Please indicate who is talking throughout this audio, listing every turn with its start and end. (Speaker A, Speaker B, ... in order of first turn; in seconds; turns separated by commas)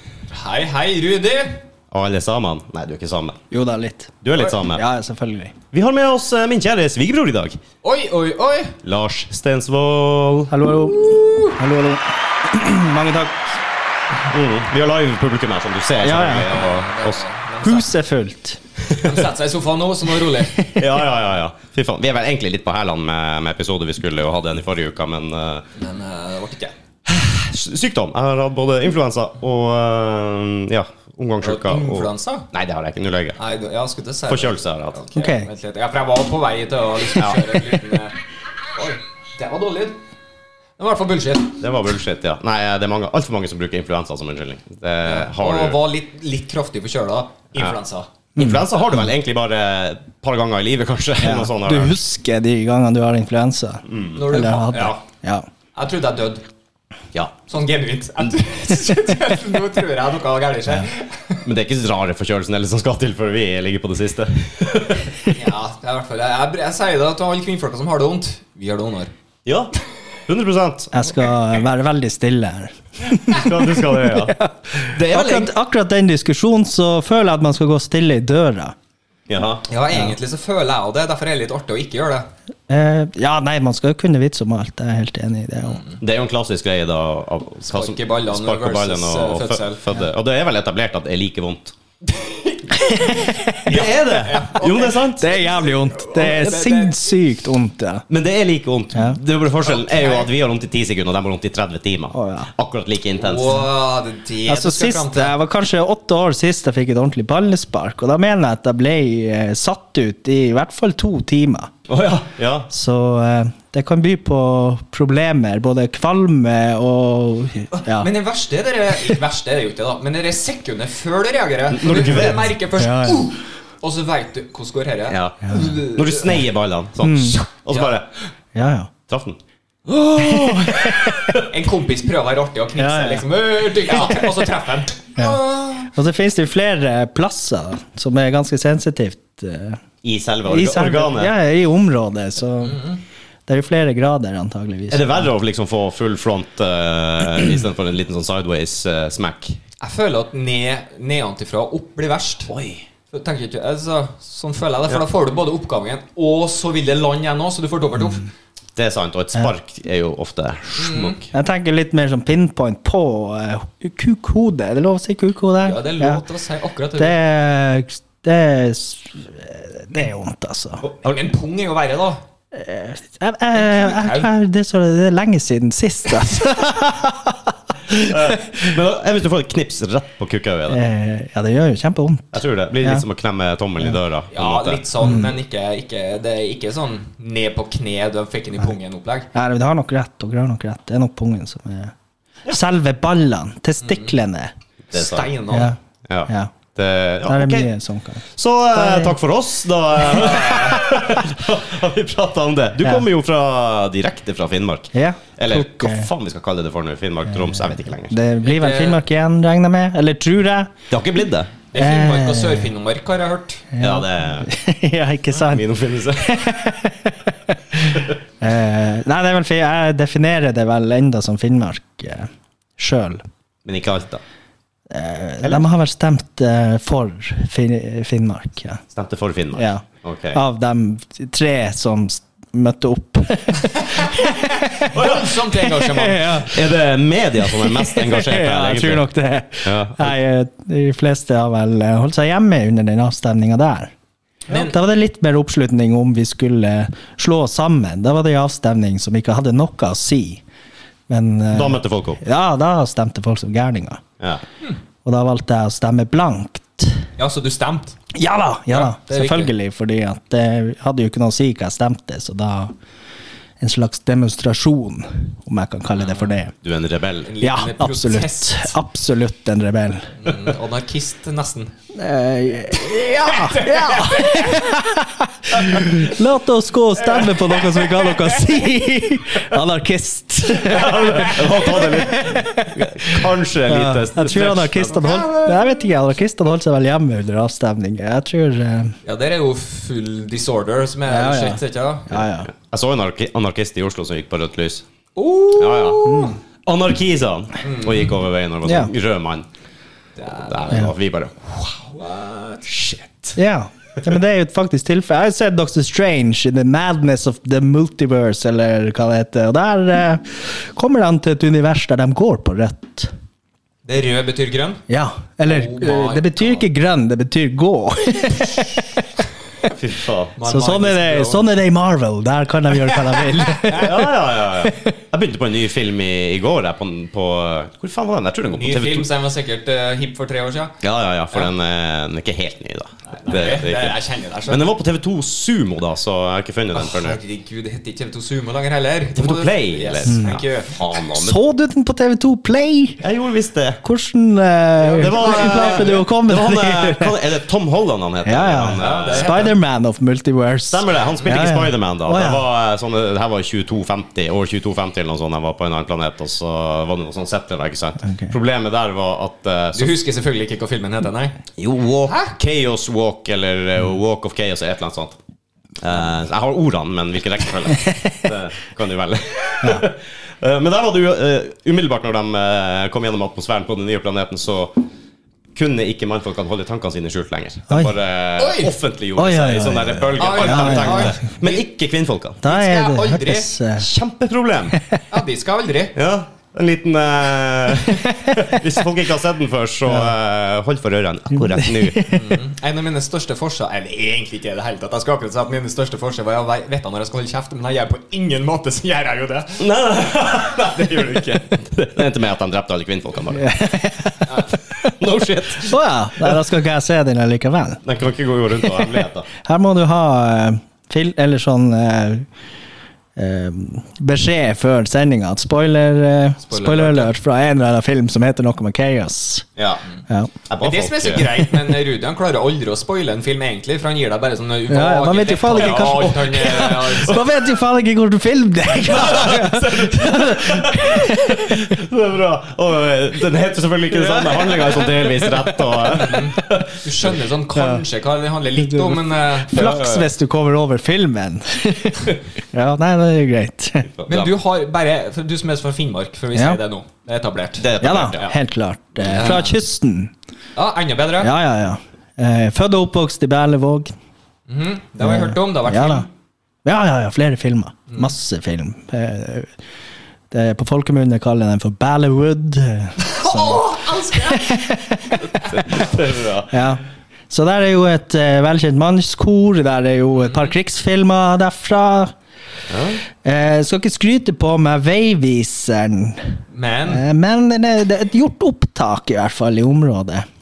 Speaker A: 0.3-1.6, Speaker B: 1.9-3.4, Speaker C: 3.5-5.5, Speaker B: 4.2-4.8, Speaker B: 5.7-7.6, Speaker A: 7.8-8.8, Speaker B: 8.8-10.6, Speaker C: 10.5-13.5, Speaker A: 11.1-11.5, Speaker B: 14.3-17.2, Speaker C: 16.0-16.5, Speaker A: 16.5-17.9, Speaker C: 17.6-18.6, Speaker A: 18.9-20.7, Speaker B: 18.9-19.2, Speaker B: 20.7-25.6, Speaker A: 25.8-26.7, Speaker B: 27.1-33.4, Speaker A: 31.4-32.5, Speaker A: 33.4-38.2, Speaker B: 34.3-35.0, Speaker C: 35.1-35.5, Speaker B: 37.2-37.5, Speaker A: 38.8-40.0, Speaker A: 40.8-41.6, Speaker B: 41.6-45.8, Speaker A: 45.0-48.1, Speaker C: 48.4-49.1, Speaker B: 48.4-52.0, Speaker C: 51.2-55.5, Speaker B: 53.9-54.2, Speaker A: 54.1-55.0, Speaker A: 55.8-56.4, Speaker A: 57.5-61.5, Speaker B: 61.5-65.2, Speaker A: 65.2-69.1, Speaker B: 69.5-69.7, Speaker B: 70.3-71.0, Speaker C: 70.9-78.8, Speaker B: 73.3-74.3, Speaker A: 74.9-75.5, Speaker B: 79.3-79.6, Speaker A: 79.7-82.3, Speaker C: 82.7-85.8, Speaker A: 85.6-86.0, Speaker B: 86.0-91.8, Speaker A: 87.7-89.8, Speaker A: 92.1-97.0, Speaker C: 92.7-93.8, Speaker B: 93.7-95.3, Speaker C: 95.2-98.0, Speaker B: 98.1-103.6, Speaker C: 98.9-99.2, Speaker A: 99.6-100.3, Speaker C: 102.1-102.5, Speaker A: 103.2-105.3, Speaker C: 104.5-111.7, Speaker B: 111.9-112.7, Speaker C: 112.7-118.1, Speaker A: 117.9-126.4, Speaker B: 121.7-122.5, Speaker C: 122.2-123.3, Speaker B: 125.1-128.1, Speaker C: 127.0-127.4, Speaker C: 128.5-128.9, Speaker B: 129.1-131.4, Speaker C: 130.2-131.4, Speaker A: 131.5-135.9, Speaker C: 132.8-133.3, Speaker C: 135.2-139.8, Speaker B: 140.0-141.3, Speaker C: 140.4-142.8, Speaker A: 142.6-143.0, Speaker C: 143.5-145.3, Speaker B: 144.9-149.6, Speaker A: 149.8-152.5, Speaker B: 152.5-152.8, Speaker A: 153.1-158.3, Speaker B: 158.8-161.3, Speaker A: 160.8-161.2, Speaker C: 161.3-166.2, Speaker A: 165.6-167.2, Speaker C: 167.0-170.8, Speaker A: 170.8-172.2, Speaker C: 172.5-178.6, Speaker A: 173.5-174.3, Speaker B: 177.9-180.8, Speaker C: 180.7-183.0, Speaker B: 182.3-185.1, Speaker A: 184.3-189.3, Speaker C: 185.0-185.3, Speaker C: 189.3-191.9, Speaker C: 192.5-194.5, Speaker A: 193.8-194.1, Speaker B: 194.9-195.3, Speaker A: 194.9-195.7, Speaker C: 195.5-196.5, Speaker B: 196.1-197.7, Speaker C: 197.2-198.2, Speaker B: 198.3-208.2, Speaker C: 198.7-199.2, Speaker C: 200.1-201.2, Speaker A: 200.2-200.8, Speaker C: 204.9-206.1, Speaker C: 207.5-210.7, Speaker A: 208.4-209.0, Speaker B: 210.9-211.5, Speaker A: 211.7-213.7, Speaker C: 211.8-212.7, Speaker C: 213.7-223.2, Speaker B: 213.8-214.5, Speaker B: 215.4-216.4, Speaker B: 223.7-224.2, Speaker C: 224.9-228.8, Speaker B: 228.9-230.4, Speaker C: 229.5-236.7, Speaker A: 234.7-236.5, Speaker B: 235.0-235.3, Speaker B: 236.4-239.0, Speaker C: 237.4-243.9, Speaker B: 239.7-240.2, Speaker A: 244.5-244.8, Speaker C: 244.5-250.4, Speaker C: 251.1-254.0, Speaker B: 251.5-252.2, Speaker C: 255.0-257.0, Speaker A: 257.2-258.0, Speaker C: 258.1-262.7, Speaker A: 258.7-259.5, Speaker C: 263.6-266.5, Speaker A: 266.0-266.3, Speaker B: 266.6-267.3, Speaker A: 267.3-268.7, Speaker C: 267.4-270.1, Speaker A: 270.2-271.7, Speaker C: 271.9-288.9, Speaker A: 272.9-274.7, Speaker B: 280.6-285.2, Speaker A: 284.4-285.6, Speaker A: 289.0-292.1, Speaker C: 291.1-292.5, Speaker B: 292.1-294.9, Speaker A: 295.1-296.4, Speaker B: 295.6-299.5, Speaker C: 296.0-296.4, Speaker A: 297.6-298.1, Speaker C: 298.6-298.9, Speaker A: 300.2-300.9, Speaker B: 300.3-301.3, Speaker A: 301.5-303.4, Speaker C: 303.4-313.1, Speaker A: 313.9-314.8, Speaker C: 314.9-318.9, Speaker A: 315.4-316.6, Speaker B: 319.8-320.3, Speaker A: 320.4-321.4, Speaker C: 320.4-324.1, Speaker A: 323.4-323.8, Speaker B: 323.7-329.1, Speaker A: 328.5-330.7, Speaker B: 330.8-334.0, Speaker A: 333.1-334.7, Speaker B: 334.5-337.2, Speaker A: 336.8-340.7, Speaker B: 339.1-341.4, Speaker C: 340.1-340.4, Speaker C: 341.1-343.0, Speaker B: 343.0-343.8, Speaker C: 343.8-347.2, Speaker A: 344.8-346.0, Speaker B: 345.0-349.5, Speaker C: 348.2-352.4, Speaker A: 348.8-349.5, Speaker B: 350.7-360.0, Speaker C: 358.1-358.3, Speaker A: 359.8-361.4, Speaker B: 361.6-365.2, Speaker A: 362.1-362.3, Speaker B: 365.8-374.8, Speaker B: 375.5-382.4, Speaker C: 377.7-378.0, Speaker A: 378.4-378.7, Speaker C: 379.1-381.3, Speaker A: 380.2-381.6, Speaker C: 382.4-383.9, Speaker A: 382.4-383.5, Speaker B: 383.8-384.8, Speaker C: 384.7-385.0, Speaker A: 385.1-385.9, Speaker B: 385.9-392.2, Speaker C: 391.5-392.2, Speaker A: 392.1-399.6, Speaker B: 399.6-403.5, Speaker C: 403.3-404.4, Speaker B: 404.8-406.4, Speaker C: 405.6-407.8, Speaker B: 407.9-409.3, Speaker C: 408.6-408.9, Speaker C: 409.4-412.3, Speaker C: 413.1-419.5, Speaker A: 416.5-417.1, Speaker B: 419.6-419.8, Speaker C: 420.1-420.3, Speaker B: 420.5-421.3, Speaker A: 420.6-427.2, Speaker C: 424.7-431.8, Speaker B: 425.6-426.1, Speaker B: 428.8-436.8, Speaker C: 434.0-435.8, Speaker A: 435.9-440.1, Speaker C: 437.5-437.8, Speaker C: 438.6-443.9, Speaker B: 443.9-444.3, Speaker A: 444.1-448.4, Speaker C: 446.3-446.6, Speaker B: 447.6-448.3, Speaker C: 447.8-450.1, Speaker B: 449.1-449.3, Speaker A: 449.1-449.6, Speaker A: 450.6-451.3, Speaker C: 451.2-453.9, Speaker A: 454.5-456.1, Speaker C: 455.0-456.1, Speaker C: 456.6-459.5, Speaker A: 457.9-458.1, Speaker C: 460.3-465.2, Speaker A: 463.0-465.2, Speaker B: 465.3-466.6, Speaker C: 466.5-472.1, Speaker A: 470.2-470.5, Speaker B: 472.7-473.0, Speaker C: 473.2-480.2, Speaker A: 476.5-477.0